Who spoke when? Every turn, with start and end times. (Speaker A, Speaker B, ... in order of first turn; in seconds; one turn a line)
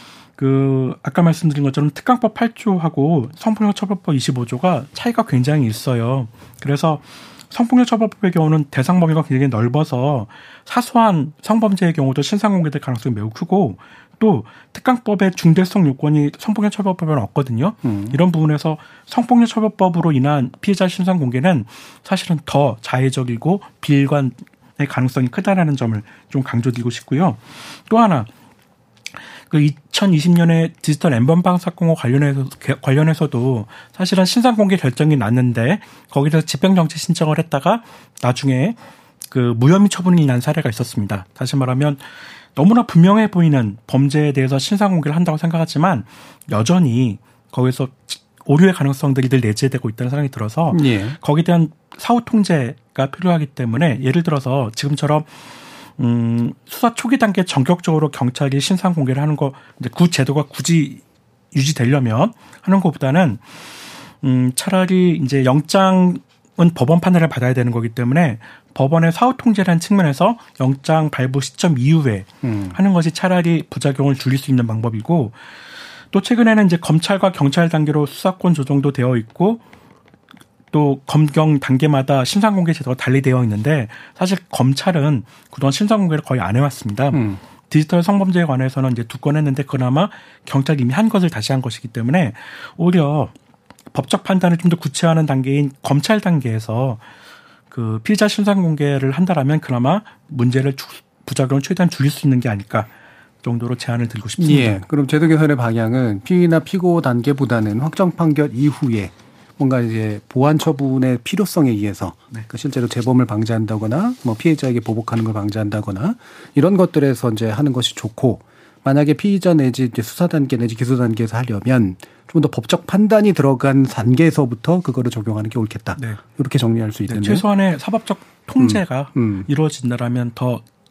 Speaker A: 0.4-28.3
Speaker B: 17.8-18.2
Speaker A: 29.5-38.8
Speaker A: 39.3-42.0
Speaker A: 42.5-55.3
Speaker B: 50.7-51.2
Speaker A: 56.0-61.0
Speaker A: 61.5-63.4
Speaker A: 64.2-75.4
Speaker B: 72.4-72.8
Speaker A: 76.1-79.6
Speaker A: 80.7-93.3
Speaker B: 87.1-87.4
Speaker A: 93.9-97.0
Speaker A: 97.7-102.9
Speaker A: 103.4-104.8
Speaker B: 104.4-127.5
Speaker A: 127.1-130.6
Speaker B: 128.6-129.5